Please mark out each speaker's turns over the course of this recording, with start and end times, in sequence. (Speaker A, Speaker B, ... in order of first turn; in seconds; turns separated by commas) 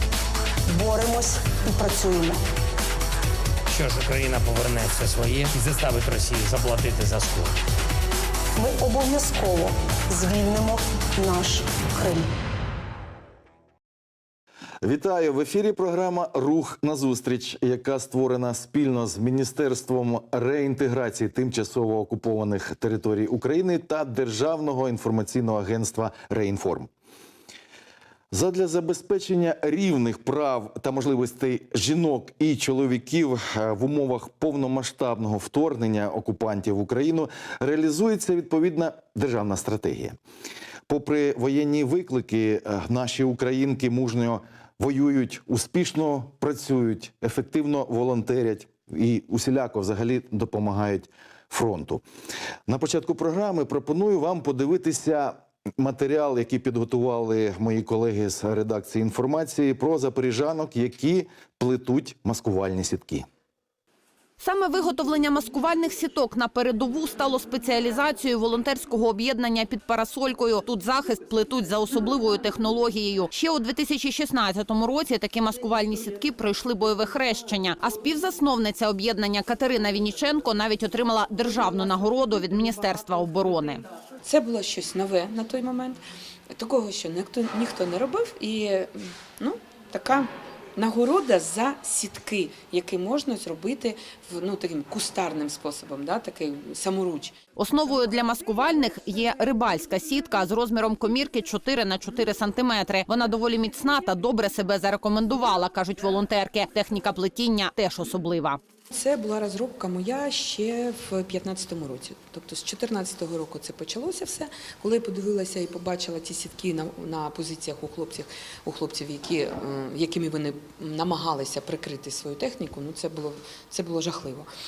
Speaker A: 0.7-2.4, Speaker B: 3.7-7.5, Speaker A: 8.6-12.3, Speaker C: 14.8-26.9, Speaker C: 28.3-40.2, Speaker C: 40.9-52.0, Speaker C: 52.7-63.3, Speaker D: 64.4-83.8, Speaker E: 84.2-86.0, Speaker E: 86.5-97.4, Speaker D: 97.5-108.6, Speaker E: 108.9-124.5